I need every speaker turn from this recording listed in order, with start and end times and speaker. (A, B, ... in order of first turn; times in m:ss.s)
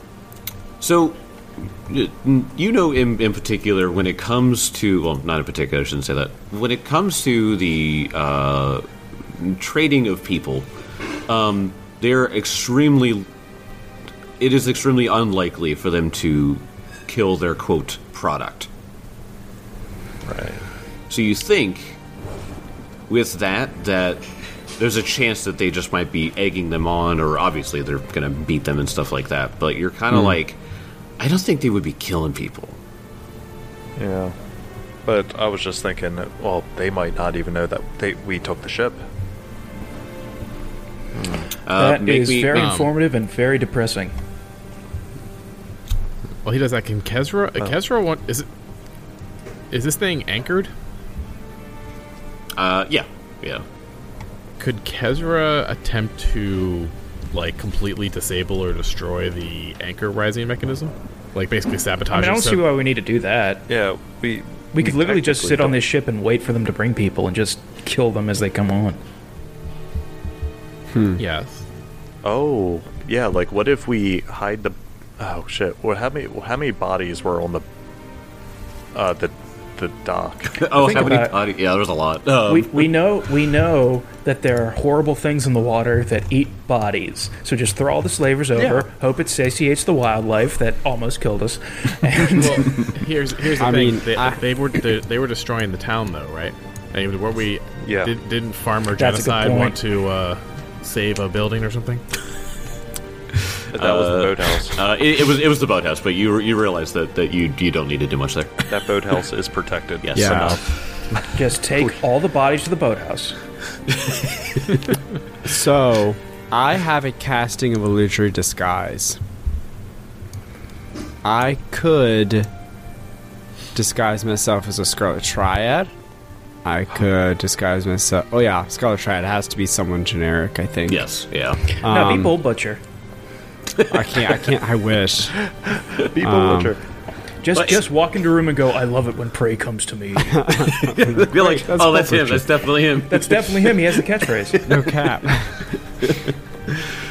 0:00.8-0:10.7 A
0:11.3-0:13.3 A
0:14.4-0:18.7 A
0:20.2-0:20.6 B
0:21.1-0:22.0 A
0:23.1-0:30.6 A
0:31.2-0:32.8 A
0:34.0-0:34.3 B
0:35.0-0:39.0 B
0:41.1-0:41.5 B
0:41.6-0:42.9 A
0:41.7-0:44.1 C
0:42.5-0:42.9 D
0:46.4-0:48.5 D
0:49.7-0:50.7 D
0:52.6-0:53.6 A
0:54.6-1:02.6 D
1:02.1-1:03.6 C
1:03.7-1:05.8 B
1:04.7-1:09.0 C
1:10.9-1:11.2 E
1:11.2-1:11.6 D
1:12.2-1:17.6 B
1:18.9-1:21.1 B
1:20.5-1:23.0 A
1:20.8-1:21.4 C
1:22.5-1:32.7 C
1:28.6-1:28.8 B
1:32.3-1:42.0 D
1:33.6-1:34.4 E
1:37.8-1:38.1 B
1:39.0-1:39.8 C
1:43.7-1:44.8 B
1:43.7-1:48.7 A
1:48.7-1:51.9 B
1:50.0-1:50.6 A
1:50.1-1:50.6 E
1:51.3-1:53.4 C
1:53.9-1:54.8 A
1:55.4-1:59.2 E
2:01.2-2:02.5 E
2:03.7-2:05.9 E
2:06.6-2:11.1 E
2:10.9-2:11.8 A
2:11.8-2:12.4 E
2:11.8-2:12.8 C
2:13.7-2:14.4 A
2:13.9-2:15.4 E
2:16.0-2:16.8 B
2:16.2-2:16.7 E
2:17.4-2:20.7 C
2:17.5-2:17.8 A
2:20.3-2:22.4 E
2:20.6-2:24.0 A
2:23.1-2:24.6 C
2:24.7-2:25.8 E
2:26.0-2:26.3 A